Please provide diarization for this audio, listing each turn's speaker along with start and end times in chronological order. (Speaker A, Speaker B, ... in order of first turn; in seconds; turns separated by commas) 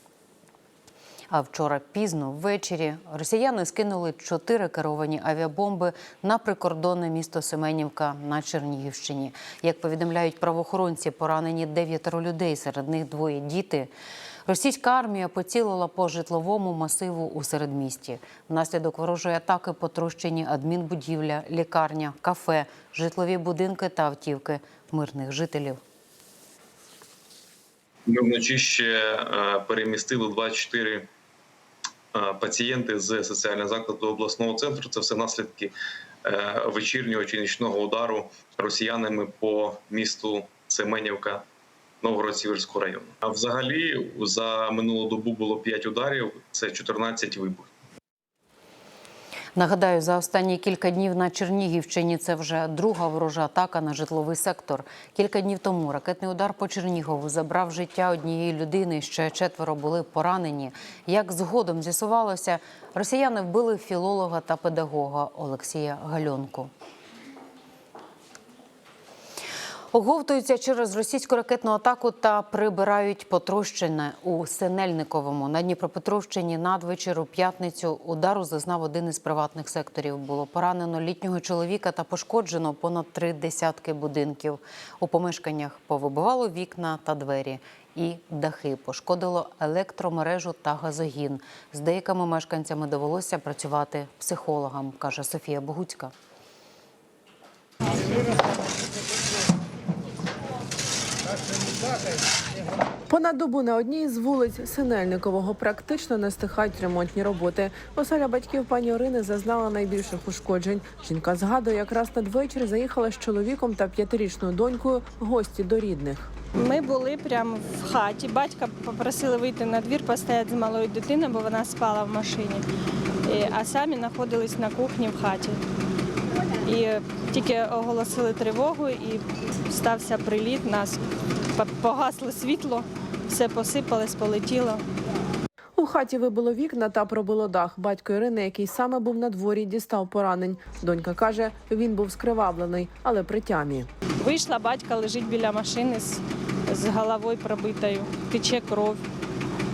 Speaker A: 1.3-13.9, Speaker A: 14.4-25.8, Speaker B: 28.1-31.1, Speaker B: 32.1-35.7, Speaker B: 36.3-41.4, Speaker B: 42.0-47.6, Speaker A: 49.5-66.7, Speaker A: 69.9-96.1, Speaker C: 103.1-116.3, Speaker D: 116.6-122.6, Speaker D: 123.3-125.6, Speaker D: 126.7-131.0, Speaker D: 131.6-134.8, Speaker C: 135.8-143.9, Speaker D: 144.2-149.0